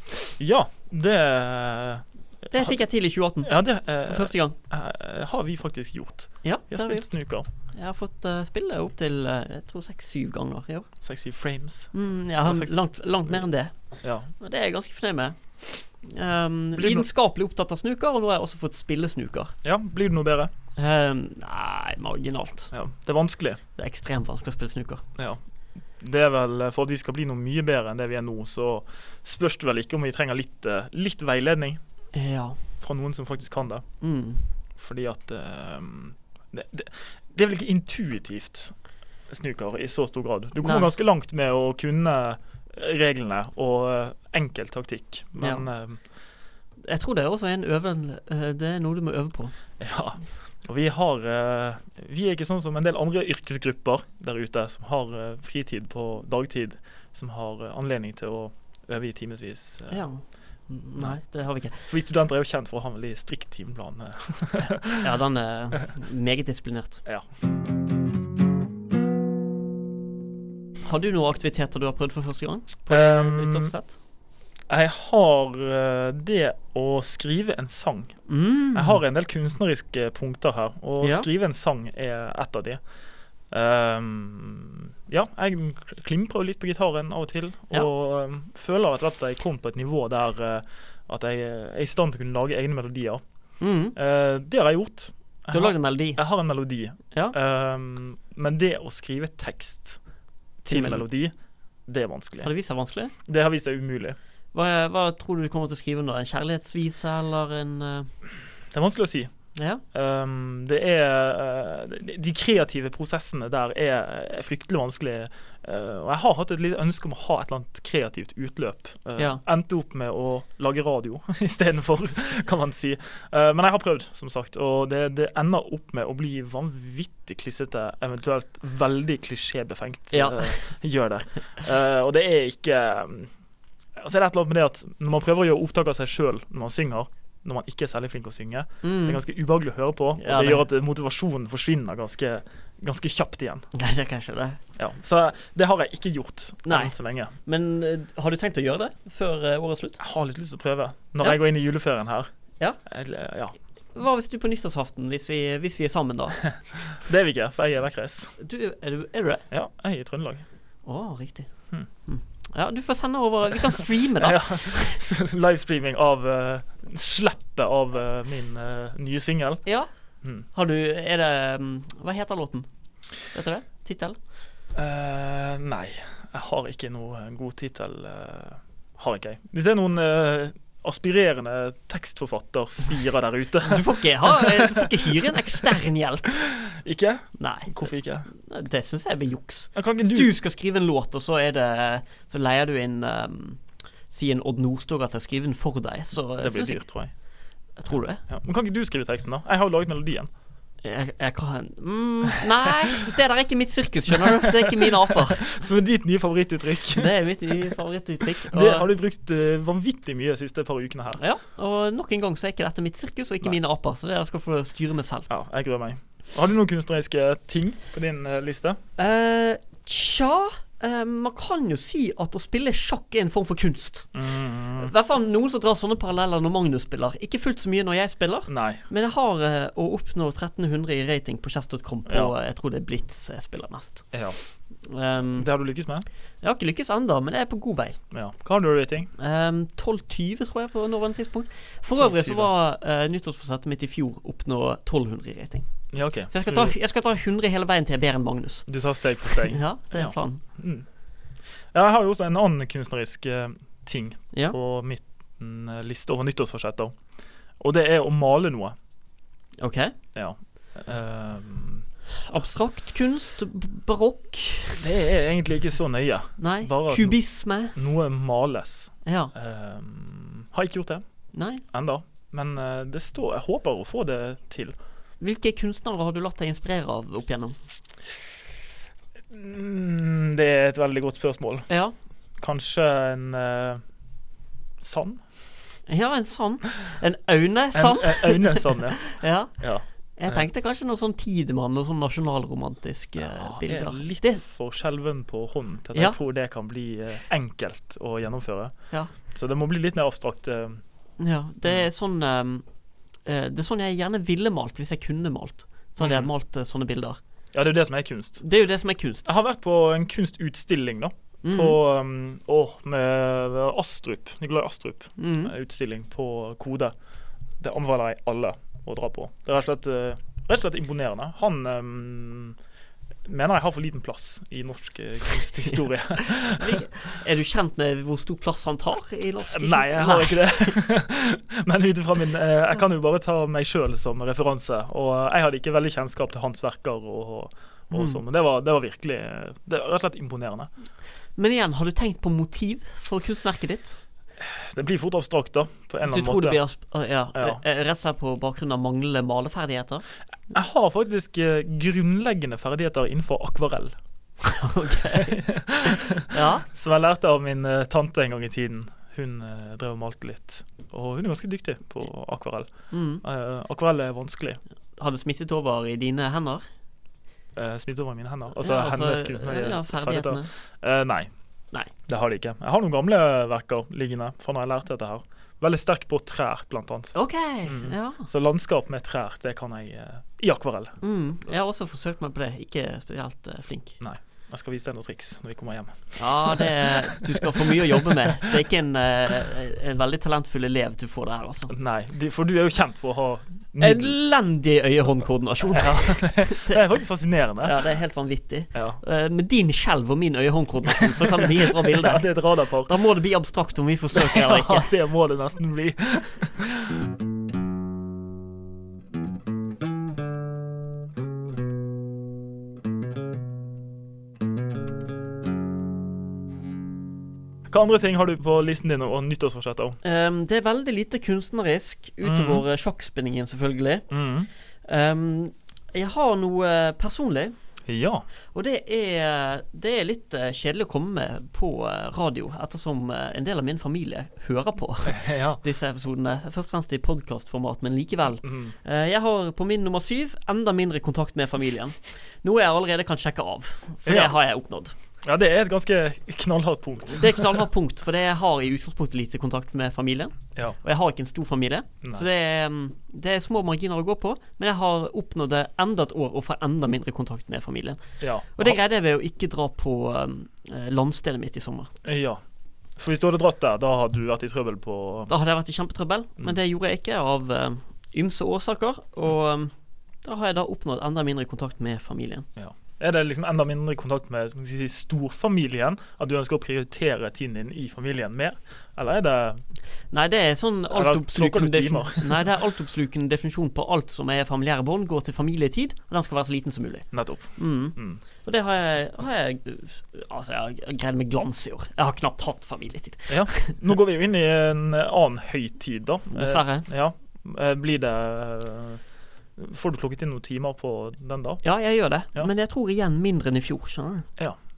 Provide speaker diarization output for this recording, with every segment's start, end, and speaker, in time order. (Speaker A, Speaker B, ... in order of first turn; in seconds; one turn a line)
Speaker A: 0.4-2.8
Speaker B: 2.5-4.6
Speaker A: 3.4-7.5
Speaker B: 6.4-7.1
Speaker B: 7.7-10.9
Speaker A: 11.0-12.7
Speaker B: 11.9-13.7
Speaker A: 14.0-14.3
Speaker B: 14.3-19.5
Speaker A: 16.7-17.1
Speaker A: 19.6-20.5
Speaker B: 20.8-22.7
Speaker A: 22.7-23.6
Speaker B: 23.8-25.0
Speaker A: 26.0-31.8
Speaker B: 32.1-32.6
Speaker A: 32.8-33.8
Speaker B: 34.0-34.5
Speaker A: 34.8-38.7
Speaker A: 39.3-46.0
Speaker B: 40.6-40.9
Speaker B: 45.4-45.7
Speaker B: 46.8-49.5
Speaker A: 49.8-60.0
Speaker B: 59.9-61.9
Speaker A: 61.8-65.1
Speaker B: 65.0-67.0
Speaker B: 70.8-73.9
Speaker A: 72.9-73.7
Speaker A: 74.7-78.2
Speaker B: 78.3-79.0
Speaker A: 78.7-82.8
Speaker B: 81.0-81.3
Speaker A: 83.5-93.2
Speaker B: 93.6-94.0
Speaker A: 93.9-100.0
Speaker B: 95.5-96.2
Speaker A: 100.6-101.3
Speaker B: 100.7-101.0
Speaker A: 101.8-102.5
Speaker B: 102.4-103.1
Speaker A: 103.2-104.2
Speaker B: 104.5-108.1
Speaker A: 108.7-109.3
Speaker B: 109.5-109.8
Speaker A: 109.9-133.3
Speaker B: 130.1-130.7
Speaker A: 133.9-143.7
Speaker B: 138.8-139.2
Speaker B: 140.2-140.6
Speaker B: 143.7-144.6
Speaker A: 144.8-147.3
Speaker B: 146.7-150.0
Speaker A: 150.0-152.3
Speaker A: 152.8-153.5
Speaker B: 153.9-156.4
Speaker A: 156.9-158.3
Speaker B: 158.4-159.4
Speaker A: 159.5-160.4
Speaker B: 160.8-161.5
Speaker B: 162.0-165.0
Speaker A: 164.2-169.6
Speaker B: 170.5-172.7
Speaker B: 173.2-174.2
Speaker A: 174.7-185.6
Speaker B: 183.6-186.3
Speaker A: 186.3-188.3
Speaker B: 187.4-196.8
Speaker A: 189.7-190.3
Speaker A: 196.4-197.1
Speaker B: 197.8-198.2
Speaker A: 198.3-200.3
Speaker B: 200.8-205.5
Speaker A: 204.2-207.7
Speaker B: 206.9-208.9
Speaker A: 208.4-211.2
Speaker B: 211.2-215.3
Speaker A: 215.3-218.8
Speaker B: 219.0-224.1
Speaker A: 224.1-224.9
Speaker B: 224.8-234.2
Speaker A: 228.5-228.8
Speaker A: 232.1-232.3
Speaker A: 234.1-234.4
Speaker B: 234.8-235.5
Speaker A: 235.4-236.1
Speaker B: 236.4-238.0
Speaker A: 238.1-239.1
Speaker B: 239.2-245.7
Speaker A: 241.9-242.5
Speaker A: 245.9-246.7
Speaker B: 246.3-250.4
Speaker A: 248.7-250.8
Speaker A: 251.7-256.9
Speaker A: 257.6-258.7
Speaker B: 259.6-259.9
Speaker A: 260.1-261.9
Speaker B: 262.1-264.8
Speaker A: 264.8-267.2
Speaker B: 266.4-267.8
Speaker A: 267.7-271.0
Speaker B: 269.0-269.3
Speaker B: 271.3-271.6
Speaker A: 271.6-274.7
Speaker B: 275.2-277.6
Speaker A: 279.3-281.7
Speaker B: 281.7-281.9
Speaker A: 282.4-283.8
Speaker A: 284.8-285.2
Speaker B: 285.9-289.6
Speaker A: 287.7-290.4
Speaker B: 290.1-294.4
Speaker A: 293.2-298.7
Speaker A: 299.2-300.8
Speaker B: 301.2-302.6
Speaker B: 303.2-307.2
Speaker A: 306.0-306.3
Speaker A: 307.5-308.4
Speaker B: 308.4-309.3
Speaker A: 309.2-316.9
Speaker B: 311.4-311.8
Speaker B: 315.2-315.5
Speaker A: 317.6-322.6
Speaker A: 323.2-326.8
Speaker B: 326.2-330.8
Speaker A: 329.4-340.7
Speaker B: 337.9-338.2
Speaker B: 341.4-344.0
Speaker A: 344.4-346.6
Speaker B: 346.0-350.0
Speaker A: 347.3-347.6
Speaker A: 350.5-354.0
Speaker B: 354.4-356.6
Speaker A: 355.1-362.7
Speaker B: 362.9-363.2
Speaker A: 363.2-364.6
Speaker B: 364.9-366.6
Speaker A: 367.5-371.3
Speaker B: 368.6-370.5
Speaker A: 372.1-381.0
Speaker B: 377.1-378.3
Speaker B: 381.0-384.0
Speaker A: 384.0-388.5
Speaker B: 386.1-391.7
Speaker A: 391.7-394.2
Speaker B: 393.8-396.8
Speaker A: 395.7-397.8
Speaker B: 397.6-404.9
Speaker A: 398.7-399.0
Speaker A: 400.9-403.0
Speaker A: 404.1-406.9
Speaker A: 417.7-420.0
Speaker B: 420.0-424.1
Speaker A: 422.2-422.6
Speaker A: 424.1-424.5
Speaker B: 424.8-427.5
Speaker A: 427.9-428.2
Speaker B: 428.5-444.9
Speaker A: 435.0-435.6
Speaker A: 438.4-438.7
Speaker A: 444.1-444.4
Speaker A: 445.2-447.6
Speaker B: 447.1-458.0
Speaker A: 458.2-458.8
Speaker B: 458.6-461.9
Speaker A: 462.0-462.4
Speaker A: 463.0-465.3
Speaker B: 465.3-469.7
Speaker B: 470.2-472.5
Speaker A: 472.6-479.6
Speaker B: 480.1-493.8
Speaker A: 480.9-482.6
Speaker A: 487.1-488.2
Speaker A: 493.3-499.0
Speaker B: 496.3-496.9
Speaker A: 499.6-501.6
Speaker B: 501.6-504.3